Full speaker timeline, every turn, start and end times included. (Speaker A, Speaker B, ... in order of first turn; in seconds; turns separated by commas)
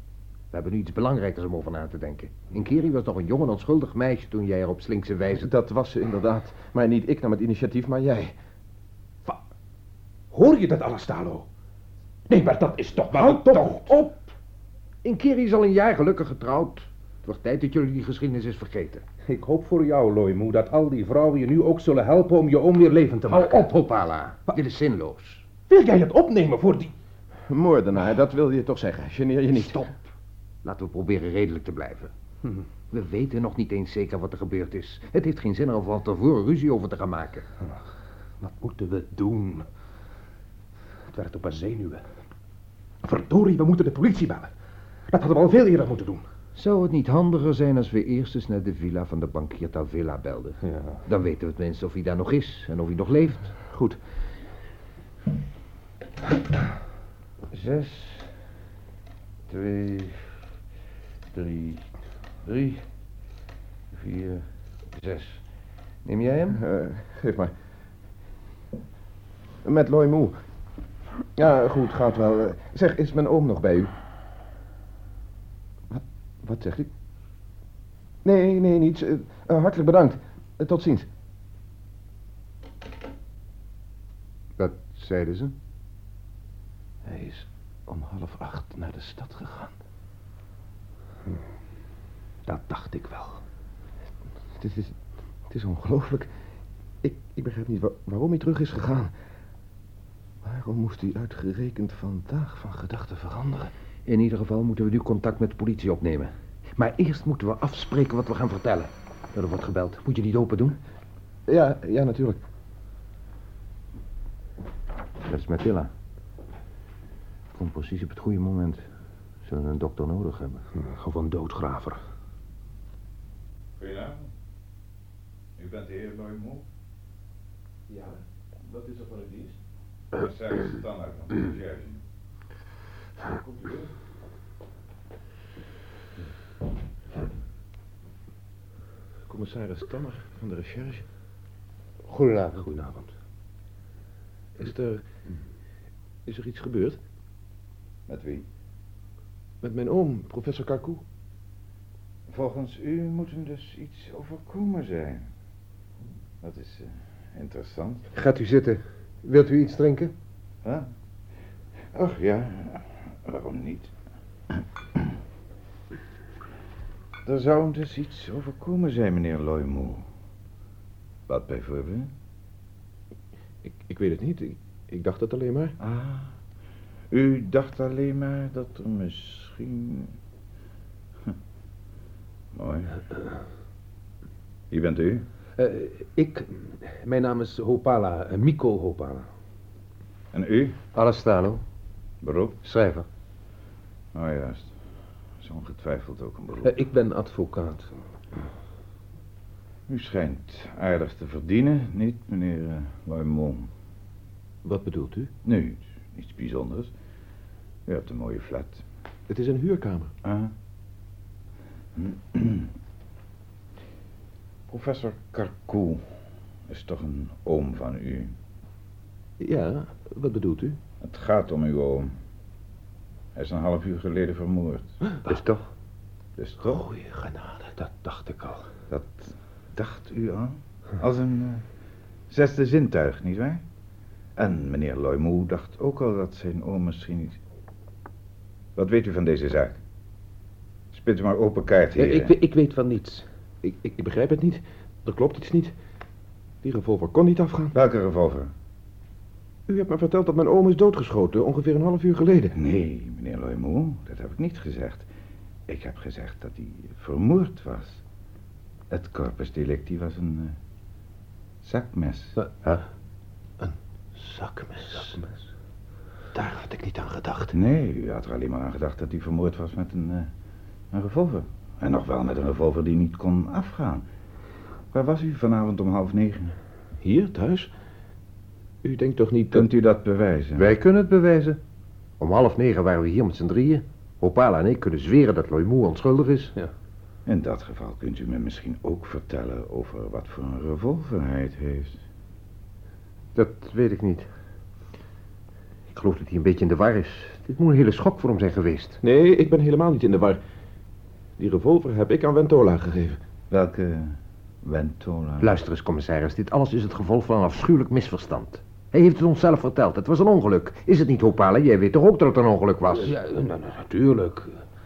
Speaker A: 0.5-5.5, Speaker B: 5.3-8.4, Speaker C: 10.3-11.5, Speaker C: 12.3-13.9, Speaker A: 13.1-14.3, Speaker A: 15.0-19.0, Speaker C: 19.3-23.7, Speaker A: 23.3-25.5, Speaker C: 25.7-26.9, Speaker B: 27.5-30.0, Speaker A: 30.6-32.1, Speaker A: 32.9-37.5, Speaker C: 38.4-39.7, Speaker C: 41.1-42.0, Speaker C: 43.0-44.5, Speaker C: 45.1-46.2, Speaker A: 46.6-53.6, Speaker C: 50.7-51.0, Speaker C: 53.6-54.0, Speaker A: 57.5-58.3, Speaker A: 59.5-60.4, Speaker A: 61.3-61.8, Speaker A: 62.5-62.8, Speaker A: 64.0-64.5, Speaker A: 65.0-65.4, Speaker A: 66.0-66.6, Speaker B: 66.5-67.5, Speaker B: 69.6-70.4, Speaker B: 71.4-73.9, Speaker B: 75.9-76.9, Speaker B: 78.2-81.1, Speaker A: 84.6-85.6, Speaker B: 87.0-89.8, Speaker C: 92.5-93.4, Speaker B: 94.6-95.0, Speaker B: 95.5-96.3, Speaker B: 97.0-99.1, Speaker B: 100.4-103.7, Speaker A: 104.1-110.8, Speaker B: 111.5-112.4, Speaker A: 115.2-115.9, Speaker A: 117.5-118.8, Speaker A: 119.5-120.6, Speaker C: 120.8-122.0, Speaker D: 123.8-124.3, Speaker D: 125.6-126.7, Speaker B: 127.9-129.6, Speaker D: 130.1-132.0, Speaker B: 133.2-133.9, Speaker B: 139.3-141.1, Speaker A: 142.1-142.6, Speaker C: 142.4-143.1, Speaker B: 144.6-145.0, Speaker B: 146.3-147.0, Speaker D: 148.1-148.5, Speaker B: 149.6-151.0, Speaker D: 152.3-155.3, Speaker D: 156.4-158.1, Speaker A: 158.1-160.1, Speaker D: 161.9-163.9, Speaker D: 164.5-165.1, Speaker D: 167.3-170.1, Speaker D: 171.3-172.1, Speaker B: 173.6-175.8, Speaker D: 175.8-176.3, Speaker D: 177.1-180.1, Speaker D: 182.6-182.9, Speaker D: 184.7-185.3, Speaker C: 185.6-189.3, Speaker D: 190.3-190.8, Speaker A: 190.9-191.6, Speaker D: 192.2-192.6, Speaker A: 192.6-193.1, Speaker D: 194.1-194.7, Speaker D: 195.4-196.8, Speaker C: 196.7-197.9, Speaker D: 199.9-203.7, Speaker B: 204.7-205.2, Speaker D: 205.4-206.9, Speaker D: 207.9-208.8, Speaker B: 209.3-210.2, Speaker D: 210.2-210.5, Speaker D: 212.0-212.7, Speaker D: 214.7-216.1, Speaker D: 216.7-218.3, Speaker B: 219.4-220.8, Speaker D: 221.0-222.1, Speaker D: 223.3-224.9, Speaker A: 225.3-225.7, Speaker D: 226.4-226.8, Speaker C: 227.8-228.7, Speaker D: 228.9-231.7, Speaker D: 232.3-233.6, Speaker D: 234.4-237.4, Speaker D: 238.8-239.8, Speaker D: 240.9-242.3, Speaker C: 242.0-243.3, Speaker B: 243.6-245.7, Speaker B: 246.6-247.8, Speaker D: 247.7-248.5, Speaker B: 249.7-252.6, Speaker D: 252.6-255.1, Speaker D: 255.7-258.0, Speaker D: 258.9-260.6, Speaker D: 261.6-262.4, Speaker B: 263.6-265.2, Speaker B: 266.4-267.5, Speaker D: 267.5-270.3, Speaker D: 270.9-274.1, Speaker D: 274.9-276.6, Speaker B: 277.0-277.7, Speaker B: 278.8-279.7, Speaker D: 279.5-280.7, Speaker A: 280.6-281.6, Speaker A: 282.2-286.5, Speaker D: 287.3-292.0, Speaker A: 293.4-294.3, Speaker A: 295.9-299.0, Speaker B: 299.0-300.4, Speaker B: 301.4-303.2, Speaker D: 303.5-305.6, Speaker A: 305.4-313.2, Speaker C: 312.9-314.6